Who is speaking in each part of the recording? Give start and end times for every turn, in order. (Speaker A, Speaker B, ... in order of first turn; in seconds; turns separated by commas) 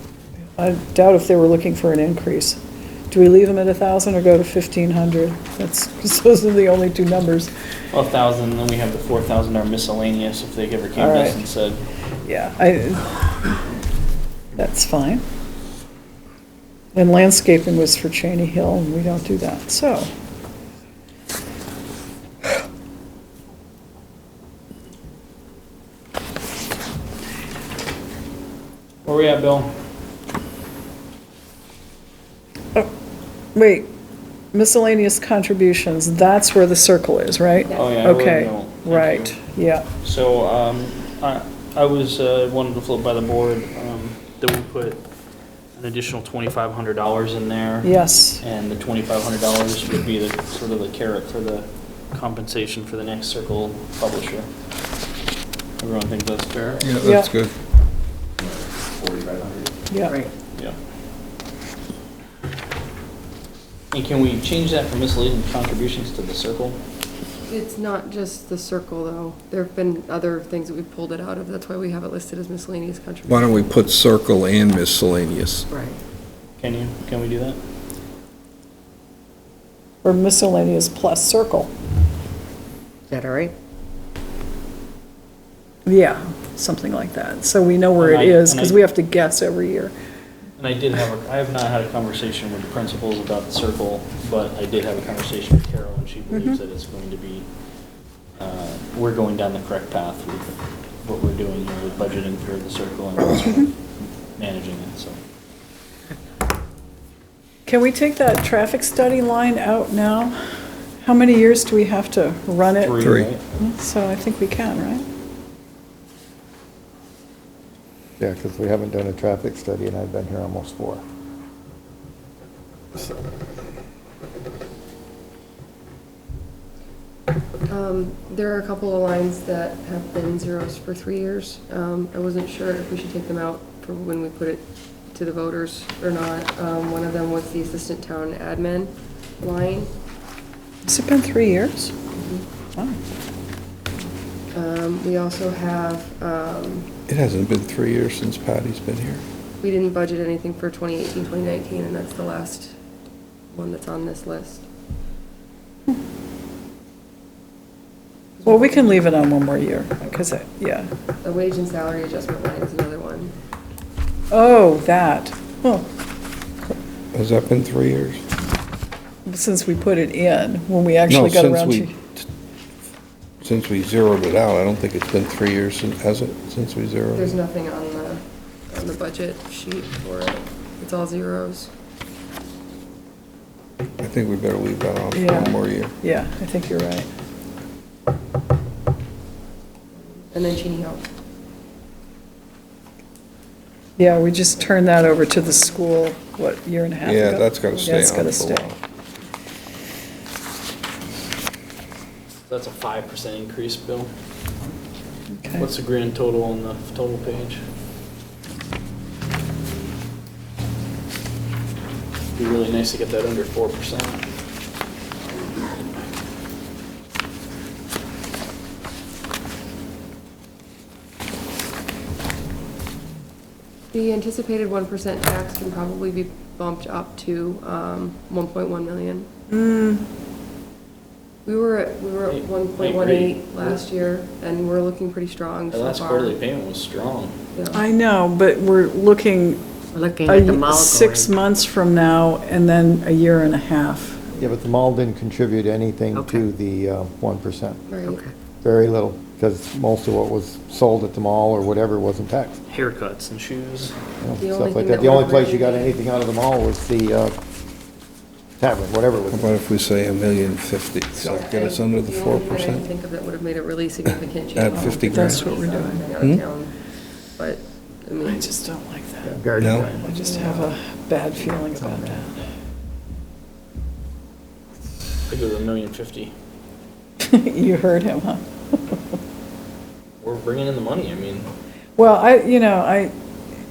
Speaker A: 0.6-2.6, Speaker A: 3.1-7.5, Speaker B: 7.9-11.8, Speaker A: 10.9-11.4, Speaker A: 12.2-13.3, Speaker A: 14.6-15.2, Speaker A: 16.9-20.1, Speaker B: 29.0-29.7, Speaker A: 33.5-33.9, Speaker A: 34.5-39.9, Speaker B: 37.7-39.4, Speaker B: 40.0-45.0, Speaker B: 45.8-54.5, Speaker A: 47.8-48.4, Speaker B: 55.8-56.9, Speaker C: 56.8-57.5, Speaker A: 57.0-57.3, Speaker A: 59.9-60.3, Speaker B: 63.9-66.8, Speaker D: 67.5-73.7, Speaker C: 73.3-75.7, Speaker E: 75.7-76.0, Speaker B: 76.6-77.6, Speaker A: 80.0-81.7, Speaker E: 83.1-83.5, Speaker A: 85.8-89.9, Speaker B: 88.0-88.8, Speaker B: 90.6-97.5, Speaker B: 98.4-103.7, Speaker B: 104.4-105.2, Speaker A: 107.6-110.3, Speaker A: 111.0-115.0, Speaker B: 112.7-113.4, Speaker C: 113.0-113.3, Speaker F: 118.2-121.0, Speaker D: 127.7-139.9, Speaker A: 140.8-141.9, Speaker D: 142.2-142.4, Speaker D: 144.5-146.9, Speaker C: 147.1-149.2, Speaker D: 149.6-152.8, Speaker D: 153.5-154.7, Speaker D: 158.4-159.1, Speaker A: 158.4-160.9, Speaker D: 161.2-163.3, Speaker A: 164.3-165.9, Speaker C: 167.1-168.2, Speaker A: 169.2-171.9, Speaker C: 171.1-172.2, Speaker C: 173.4-177.3, Speaker D: 177.1-181.7, Speaker C: 184.0-185.9, Speaker A: 185.1-187.1, Speaker D: 190.1-191.1, Speaker A: 194.0-198.6, Speaker C: 197.0-198.8, Speaker B: 202.5-204.1, Speaker A: 205.3-205.7, Speaker B: 205.6-207.6, Speaker B: 212.3-214.2, Speaker D: 223.9-229.3, Speaker A: 229.5-230.0, Speaker D: 231.4-236.4, Speaker B: 232.2-233.8, Speaker B: 235.7-237.3, Speaker D: 237.5-237.8, Speaker A: 237.7-239.6, Speaker E: 239.9-241.3, Speaker A: 240.2-244.2, Speaker F: 244.3-247.8, Speaker E: 246.1-246.4, Speaker D: 247.9-248.2, Speaker F: 248.6-252.6, Speaker B: 252.7-253.9, Speaker F: 254.2-257.4, Speaker D: 254.4-256.0, Speaker F: 258.6-259.6, Speaker C: 259.2-262.9, Speaker D: 261.2-268.5, Speaker C: 264.5-265.5, Speaker A: 264.7-266.0, Speaker A: 268.2-272.4, Speaker F: 269.2-270.7, Speaker C: 269.6-269.9, Speaker F: 271.6-272.2, Speaker B: 275.3-276.3, Speaker A: 277.2-279.0, Speaker B: 280.2-281.5, Speaker A: 281.9-283.1